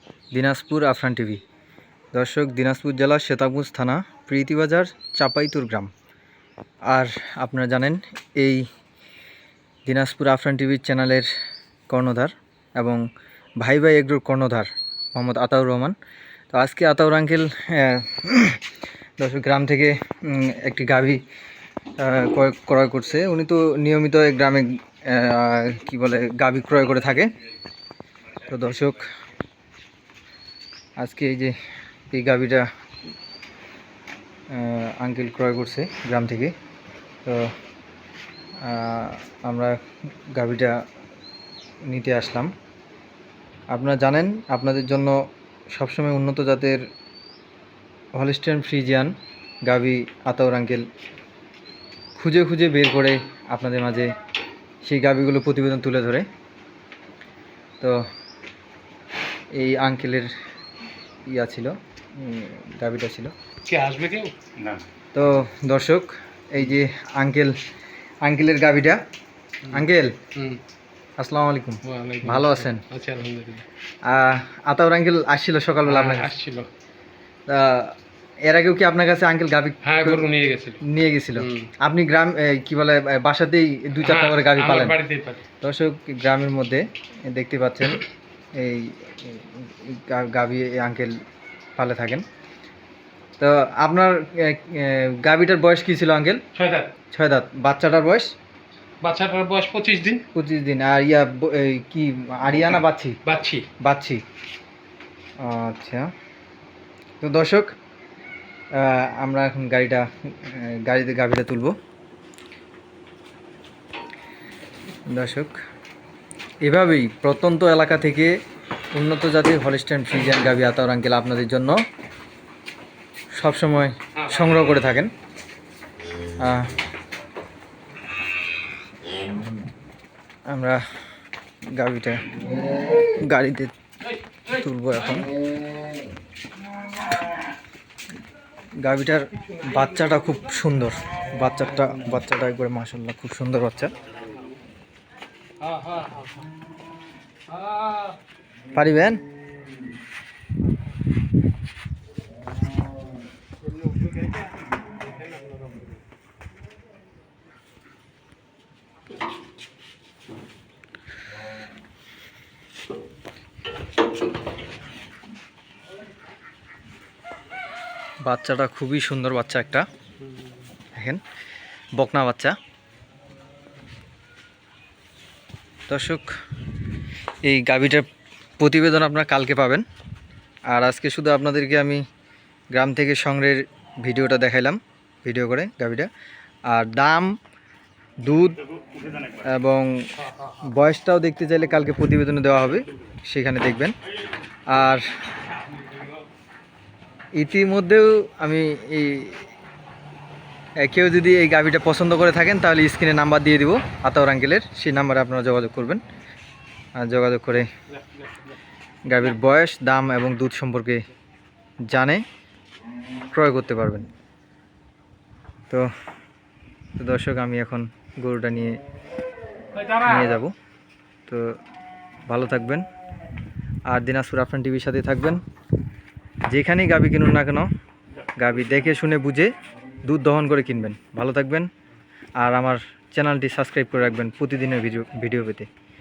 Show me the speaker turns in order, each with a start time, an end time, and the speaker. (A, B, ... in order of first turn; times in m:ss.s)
0:00.3-0:01.4 A
0:02.1-0:05.9 A
0:06.9-0:08.7 A
0:09.9-0:11.3 A
0:11.9-0:13.0 A
0:13.6-0:16.0 A
0:16.5-0:18.6 A
0:19.2-0:21.2 A
0:22.0-0:27.3 A
0:28.4-0:29.1 A
0:31.0-0:31.6 A
0:32.1-0:32.7 A
0:34.5-0:36.5 A
0:38.6-0:39.8 A
0:40.4-0:40.8 A
0:41.9-0:42.5 A
0:43.7-0:45.2 A
0:45.8-0:46.8 A
0:48.2-0:49.2 A
0:49.7-0:50.9 A
0:52.2-0:54.1 A
0:54.8-0:56.3 A
0:59.5-1:00.3 A
1:01.3-1:03.3 A
1:03.7-1:04.4 B
1:05.1-1:07.6 A
1:08.2-1:09.0 A
1:09.7-1:10.2 A
1:09.7-1:10.6 B
1:11.2-1:12.8 A
1:11.8-1:13.7 B
1:14.0-1:16.3 A
1:15.9-1:16.7 B
1:17.5-1:20.3 A
1:19.8-1:20.8 B
1:20.8-1:25.0 A
1:21.4-1:21.7 B
1:24.0-1:25.4 B
1:25.6-1:31.2 A
1:31.8-1:32.2 A
1:33.4-1:36.4 A
1:36.5-1:36.9 B
1:37.1-1:38.3 A
1:39.0-1:40.2 B
1:40.3-1:43.2 A
1:43.2-1:43.7 B
1:43.8-1:44.2 A
1:45.4-1:46.1 A
1:47.2-1:47.8 A
1:48.8-1:51.8 A
1:55.1-1:55.5 A
1:56.6-1:58.3 A
1:59.0-2:01.8 A
2:03.4-2:05.1 A
2:06.4-2:06.8 A
2:10.5-2:10.8 A
2:11.8-2:12.3 A
2:13.0-2:13.7 A
2:14.4-2:15.3 A
2:18.8-2:23.9 A
2:25.6-2:26.5 B
2:27.5-2:28.2 B
2:28.7-2:29.2 A
2:33.8-2:34.4 B
2:35.0-2:35.8 B
2:48.2-2:49.9 A
2:50.2-2:50.6 B
2:51.0-2:51.2 A
2:52.0-2:52.6 A
2:55.9-2:56.3 A
2:57.4-2:58.1 A
2:58.6-2:59.8 A
3:00.7-3:02.0 A
3:02.7-3:06.1 A
3:06.7-3:07.4 A
3:08.2-3:08.6 A
3:09.4-3:09.9 A
3:10.6-3:13.9 A
3:14.7-3:15.0 A
3:17.4-3:19.4 A
3:20.8-3:26.0 A
3:27.0-3:27.7 A
3:28.0-3:28.3 B
3:29.1-3:31.0 A
3:31.9-3:32.2 A
3:33.3-3:34.1 A
3:37.0-3:38.8 A
3:39.7-3:40.4 B
3:40.0-3:40.5 A
3:41.3-3:41.5 A
3:42.3-3:42.8 A
3:43.9-3:45.4 A
3:46.5-3:47.7 A
3:48.4-3:49.5 A
3:50.1-3:51.7 A
3:52.4-3:55.7 A